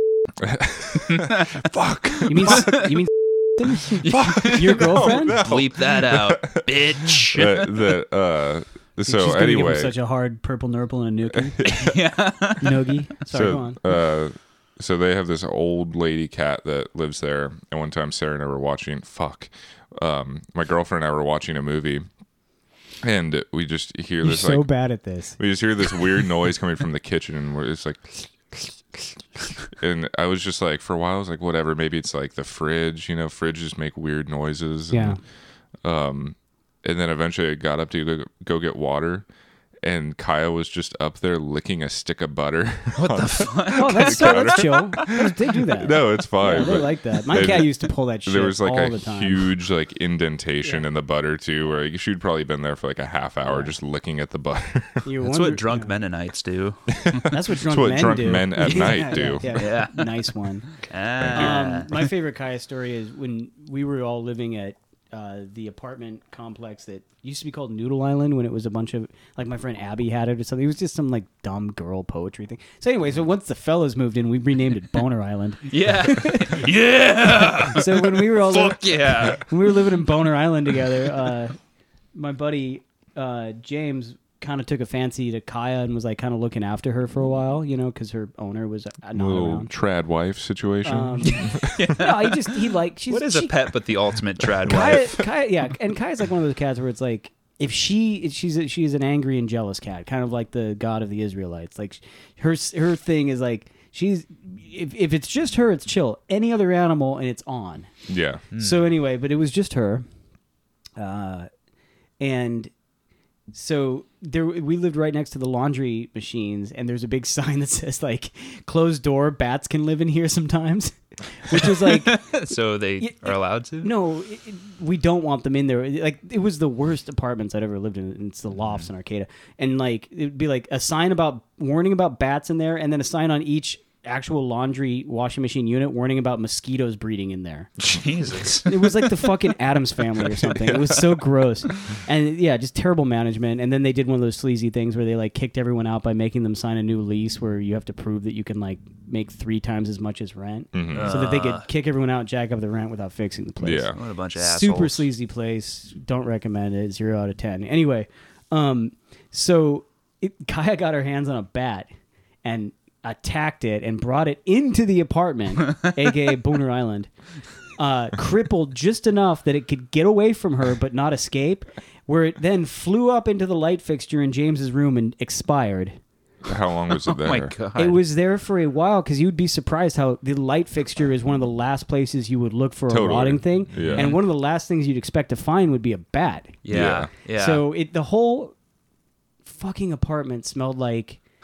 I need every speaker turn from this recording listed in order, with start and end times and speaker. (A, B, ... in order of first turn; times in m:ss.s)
0:00.4-0:02.8 A
0:01.1-0:02.9 B
0:02.2-0:05.4 C
0:04.0-0:07.7 B
0:04.2-0:09.9 A
0:09.0-0:11.7 C
0:11.6-0:12.0 A
0:11.6-0:12.8 B
0:12.6-0:13.8 C
0:13.3-0:22.0 A
0:23.0-0:24.7 A
0:24.2-0:25.4 C
0:25.4-0:28.3 A
0:29.7-0:35.2 A
0:34.9-0:35.2 C
0:35.8-0:39.3 A
0:39.8-0:55.1 A
0:42.9-0:45.2 B
0:43.7-0:49.5 C
0:53.4-0:53.7 C
0:55.0-0:55.9 C
0:55.2-0:57.2 B
0:56.9-0:59.7 A
0:57.2-1:00.7 C
0:58.6-1:01.9 B
1:01.2-1:01.7 A
1:01.3-1:16.6 C
1:15.7-1:19.5 B
1:17.6-1:21.6 C
1:22.1-1:29.7 C
1:29.1-1:31.8 A
1:30.8-1:33.5 C
1:31.5-1:35.2 B
1:34.6-1:47.9 C
1:48.1-1:48.4 A
1:48.5-1:48.8 B
1:48.6-1:50.0 C
1:51.0-1:51.5 C
1:52.2-1:52.7 C
1:53.5-2:02.2 C
2:01.5-2:03.9 B
2:03.0-2:17.7 C
2:17.8-2:19.3 B
2:18.6-2:41.9 C
2:30.7-2:31.2 A
2:30.9-2:31.7 B
2:33.6-2:34.0 A
2:33.9-2:35.1 B
2:42.4-2:47.1 C
2:47.8-2:56.0 C
2:56.4-2:57.5 A
2:56.9-2:58.0 B
2:57.8-3:06.6 C
3:02.9-3:04.2 A
3:03.8-3:04.2 B
3:06.6-3:07.6 B
3:06.7-3:07.1 A
3:07.3-3:08.5 C
3:09.4-3:11.2 C